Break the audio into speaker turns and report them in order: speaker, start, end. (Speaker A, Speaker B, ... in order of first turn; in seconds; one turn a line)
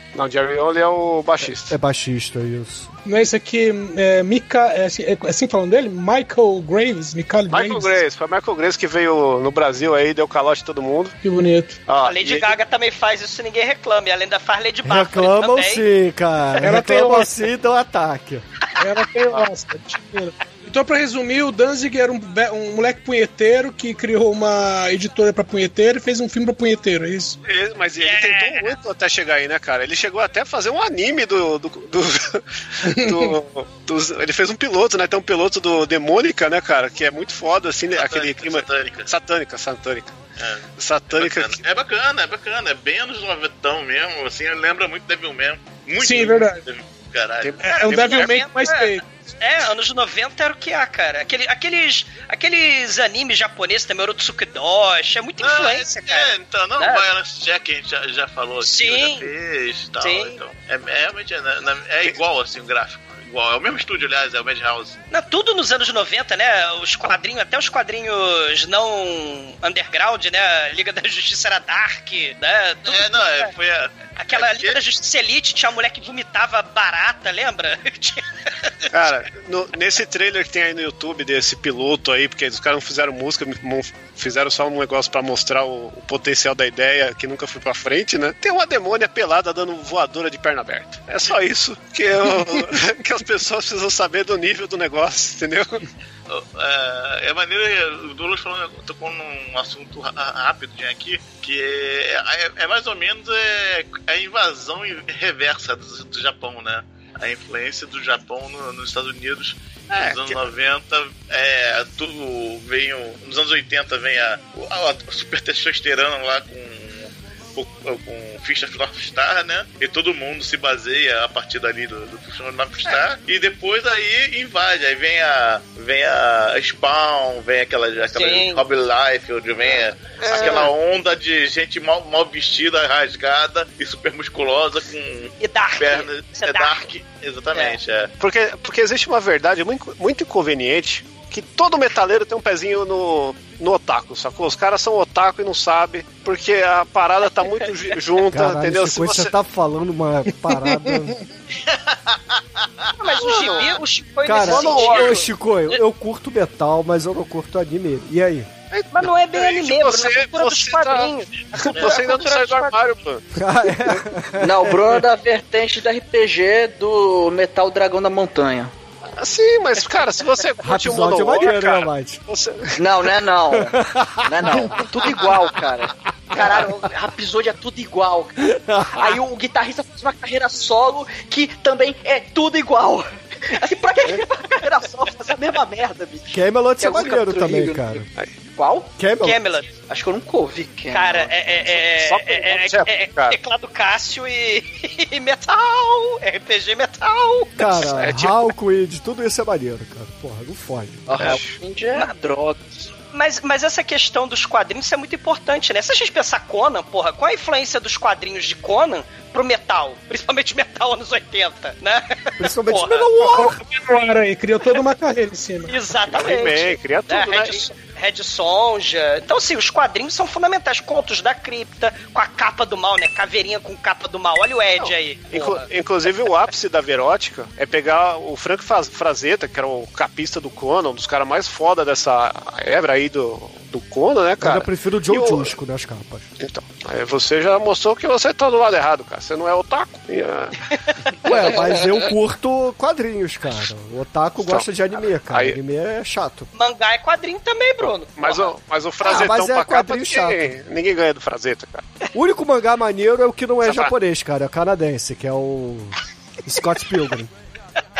Speaker A: 0.1-1.7
Speaker B: 1.5-2.9
Speaker C: 3.0-8.0
Speaker A: 7.5-11.2
Speaker C: 11.2-11.8
Speaker A: 11.9-12.5
Speaker D: 12.0-15.9
Speaker B: 14.8-18.4
Speaker C: 16.6-17.3
Speaker C: 18.8-27.4
Speaker A: 27.4-40.1
Speaker D: 28.0-28.8
Speaker C: 32.9-33.3
Speaker E: 37.9-39.1
Speaker E: 40.4-47.6
Speaker A: 40.8-41.6
Speaker C: 46.0-46.6
Speaker A: 47.4-48.4
Speaker C: 47.6-49.0
Speaker D: 47.6-57.0
Speaker E: 55.4-65.0
Speaker D: 58.6-59.3
Speaker D: 60.0-60.4
Speaker D: 65.1-73.5
Speaker E: 72.8-74.8
Speaker D: 74.2-78.2
Speaker A: 78.9-95.8
Speaker E: 96.3-138.1
Speaker A: 109.9-110.4
Speaker D: 128.1-128.6
Speaker A: 129.7-130.7
Speaker D: 130.3-130.7
Speaker D: 135.4-136.9
Speaker A: 138.2-149.3
Speaker B: 148.3-151.2
Speaker C: 150.5-151.1
Speaker D: 153.0-155.8
Speaker A: 153.2-153.8
Speaker B: 154.2-158.5
Speaker A: 154.4-155.2
Speaker A: 158.7-163.2
Speaker D: 158.9-162.8
Speaker B: 163.3-164.8
Speaker F: 164.4-168.7
Speaker A: 169.2-173.1
Speaker B: 170.6-172.2
Speaker F: 172.8-188.9
Speaker B: 173.5-174.8
Speaker B: 178.4-179.1
Speaker B: 186.3-188.1
Speaker B: 189.0-189.4
Speaker D: 189.2-189.7
Speaker F: 189.9-191.3
Speaker D: 190.9-197.9
Speaker A: 191.7-193.4
Speaker B: 197.6-201.4
Speaker A: 197.8-198.4
Speaker F: 201.1-202.6
Speaker A: 201.2-201.6
Speaker D: 203.1-213.3
Speaker B: 212.4-213.6
Speaker C: 213.3-215.7
Speaker D: 215.7-225.7
Speaker A: 216.1-217.7
Speaker A: 224.8-235.5
Speaker B: 234.4-236.3
Speaker A: 236.4-240.6
Speaker B: 241.2-246.5
Speaker A: 245.3-245.6
Speaker D: 246.5-248.5
Speaker A: 248.2-251.8
Speaker B: 249.0-250.5
Speaker B: 252.1-257.3
Speaker A: 253.6-253.9